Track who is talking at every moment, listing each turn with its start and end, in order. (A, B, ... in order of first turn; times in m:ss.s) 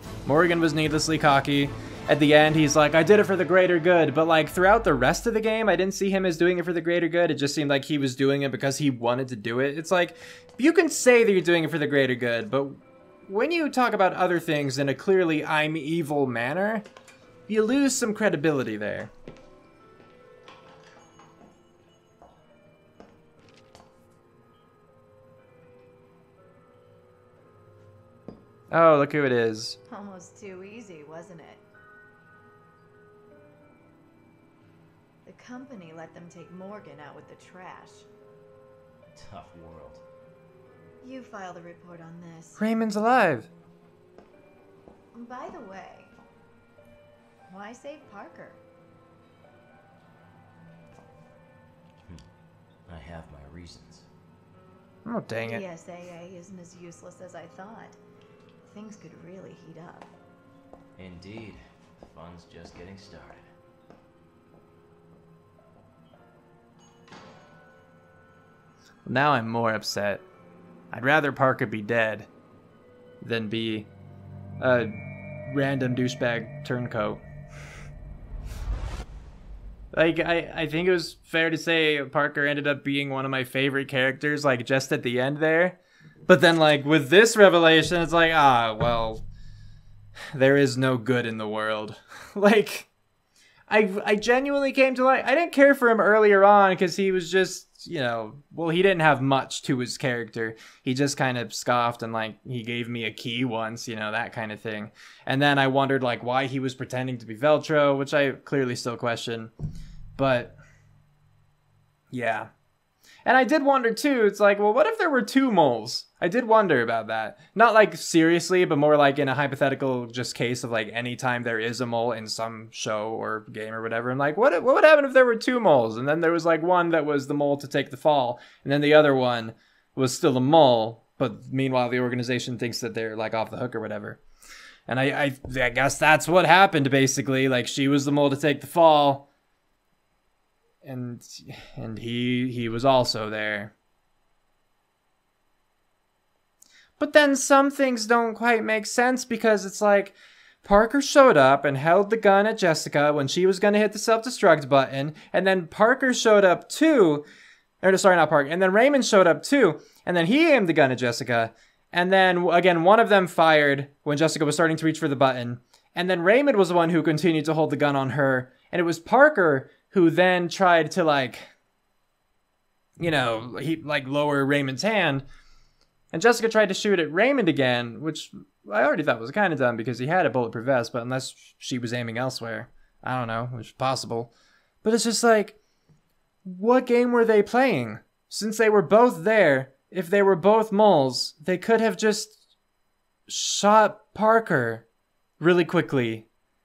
0:00.3-0:16.9 A
0:17.5-0:19.1 A
0:28.7-0:29.8 A
0:29.9-0:31.6 B
0:35.2-0:38.1 B
0:39.2-0:40.0 C
0:41.0-0:42.6 B
0:42.6-0:43.5 A
0:45.1-0:46.1 B
0:47.5-0:48.6 B
0:52.9-0:54.1 C
0:55.1-0:55.6 A
0:55.3-0:58.0 B
0:58.6-1:00.1 B
1:01.0-1:03.5 C
1:09.1-1:10.2 A
1:10.9-1:12.3 A
1:13.2-1:13.9 A
1:14.6-1:14.9 A
1:15.5-1:17.2 A
1:19.9-1:29.2 A
1:30.3-1:32.9 A
1:33.7-1:49.5 A
1:50.2-1:50.6 A
1:52.1-1:52.5 A
1:53.3-2:14.2 A
2:14.9-2:19.3 A
2:20.8-2:23.7 A
2:27.0-2:37.2 A
2:37.8-2:51.5 A
2:53.0-2:55.3 A
2:56.1-3:04.3 A
3:04.8-3:05.6 A
3:06.4-3:12.4 A
3:13.3-3:14.8 A
3:15.4-3:16.3 A